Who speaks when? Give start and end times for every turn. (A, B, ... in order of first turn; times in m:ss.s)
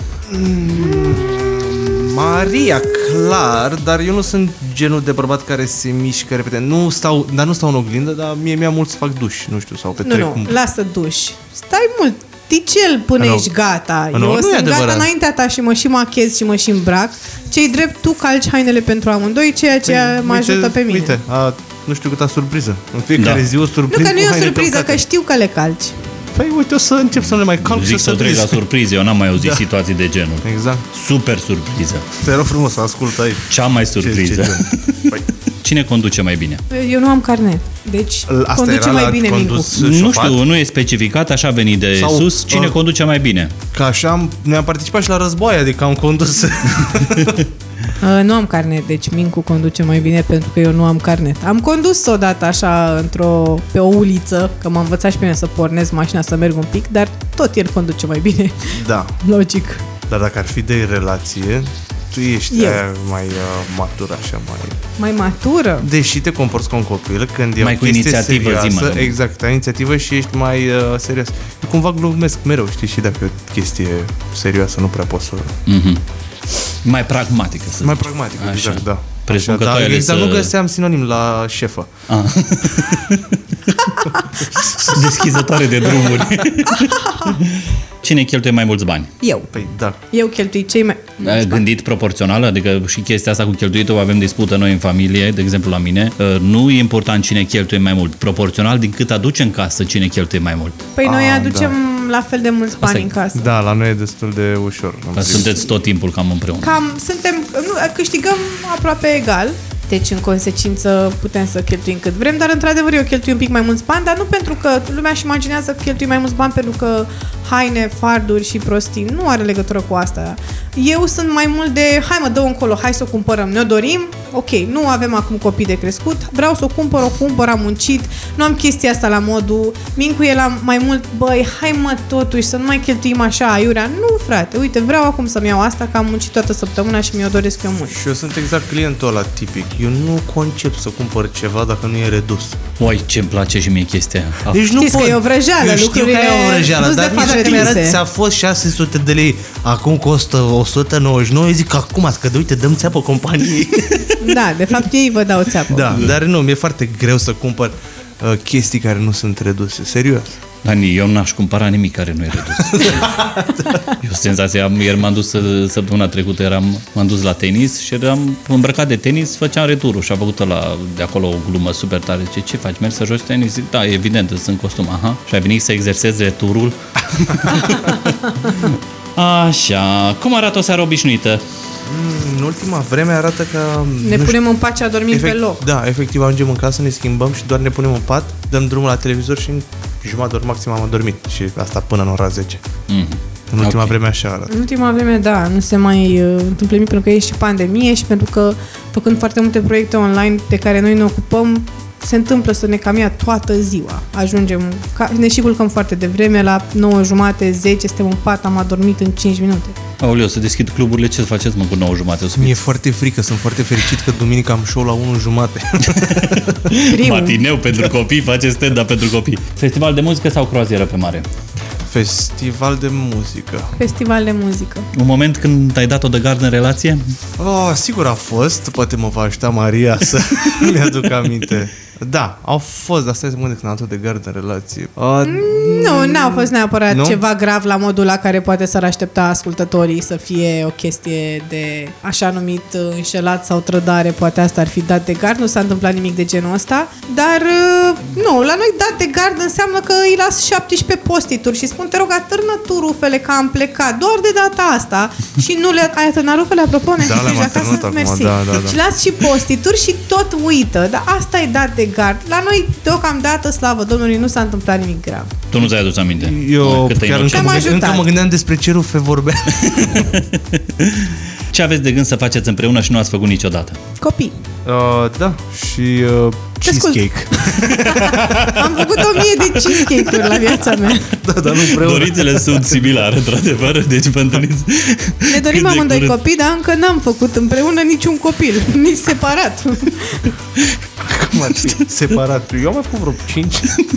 0:00.3-0:10.6 A
0:10.0-0:21.2 B
0:13.2-0:13.5 A
0:14.1-0:15.1 A
0:19.8-0:25.0 A
0:23.2-0:23.5 C
0:23.9-0:26.0 B
0:26.3-0:28.6 A
0:27.6-0:32.1 C
0:29.3-0:29.6 A
0:30.4-0:30.8 A
0:32.2-0:35.2 A
0:33.5-0:36.6 C
0:36.7-0:39.7 B
0:38.3-0:40.4 A
0:39.8-0:43.5 C
0:42.0-0:42.8 A
0:43.7-0:47.4 A
0:48.0-0:59.9 B
0:58.7-0:59.2 A
1:00.1-1:04.8 A
1:02.5-1:02.8 B
1:05.0-1:05.9 B
1:05.8-1:15.5 A
1:07.6-1:09.2 C
1:15.7-1:16.0 C
1:16.8-1:20.5 C
1:17.8-1:21.9 A
1:22.1-1:24.0 C
1:24.3-1:25.5 A
1:24.9-1:29.1 C
1:26.8-1:27.3 B
1:29.2-1:29.5 B
1:29.5-1:30.0 A
1:30.1-1:31.6 B
1:31.2-1:40.8 C
1:40.9-1:43.5 B
1:41.0-1:41.7 A
1:42.8-1:43.1 C
1:43.4-1:45.6 A
1:45.2-1:46.8 C
1:46.6-2:18.0 B
2:17.9-2:22.6 A
2:22.8-2:24.6 C
2:24.5-2:34.1 A
2:24.7-2:28.0 B
2:34.2-2:36.0 B
2:35.7-2:40.4 A
2:40.6-2:43.3 C
2:42.6-2:43.8 A
2:43.9-3:01.4 C
3:01.8-3:04.4 A
3:04.0-3:05.6 B
3:05.1-3:12.6 A
3:12.9-3:13.9 C
3:13.5-3:14.5 A
3:14.5-3:29.8 B
3:30.0-3:32.6 C
3:32.4-3:36.6 A
3:35.9-3:41.3 C
3:36.8-3:37.4 B
3:41.9-3:43.7 A
3:43.8-3:44.9 B
3:44.9-3:47.0 C
3:47.4-3:57.2 A
3:55.2-4:25.4 B
4:17.0-4:18.8 A
4:25.5-4:27.8 C
4:25.6-4:30.1 A
4:27.3-4:28.1 B
4:29.6-4:33.8 C
4:34.0-4:34.4 B
4:34.6-4:40.4 A
4:36.6-4:41.2 B
4:40.9-4:43.0 A
4:41.5-4:46.2 C
4:45.3-4:50.3 B
4:51.0-4:53.7 A